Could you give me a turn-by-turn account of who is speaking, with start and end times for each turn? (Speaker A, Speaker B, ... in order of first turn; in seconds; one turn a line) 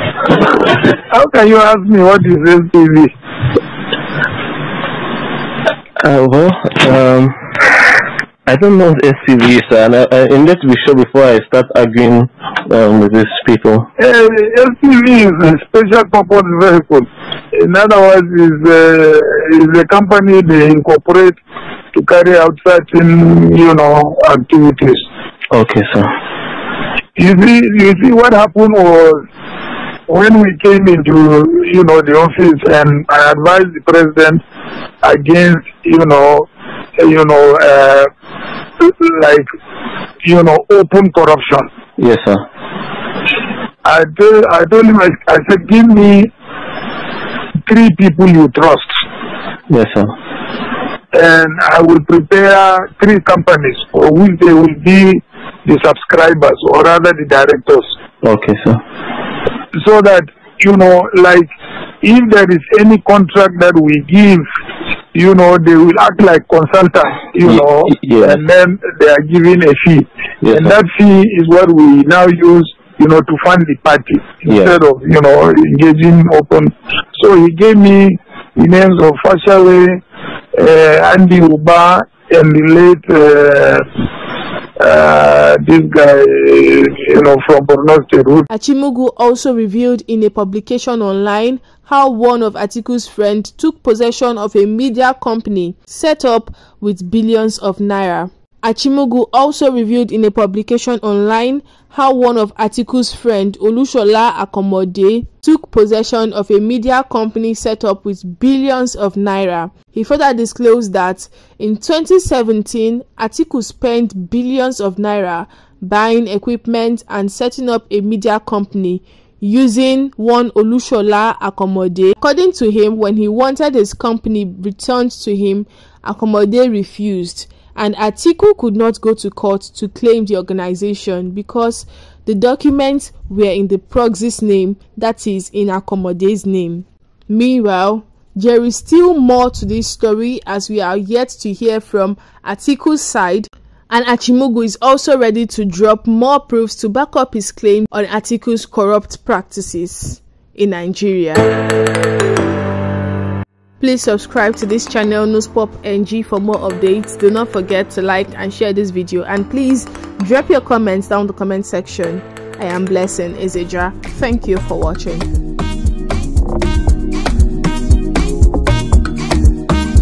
Speaker A: 0.9-3.1
Speaker B: 6.0-7.7
Speaker B: 8.4-13.9
Speaker A: 14.0-21.4
Speaker A: 21.9-25.0
Speaker B: 25.5-26.1
Speaker A: 27.2-29.2
Speaker A: 30.1-34.4
Speaker A: 35.0-36.5
Speaker A: 37.0-38.1
Speaker A: 38.8-39.5
Speaker A: 40.2-41.6
Speaker B: 42.0-42.4
Speaker A: 43.8-46.3
Speaker A: 47.7-48.9
Speaker B: 49.7-50.1
Speaker A: 51.1-57.9
Speaker B: 58.2-58.8
Speaker A: 59.7-61.5
Speaker A: 62.0-64.4
Speaker A: 65.1-80.0
Speaker B: 67.4-68.4
Speaker B: 70.4-70.7
Speaker B: 74.5-74.7
Speaker A: 80.5-83.8
Speaker A: 84.8-88.5
Speaker C: 88.5-151.5
Speaker C: 153.8-165.3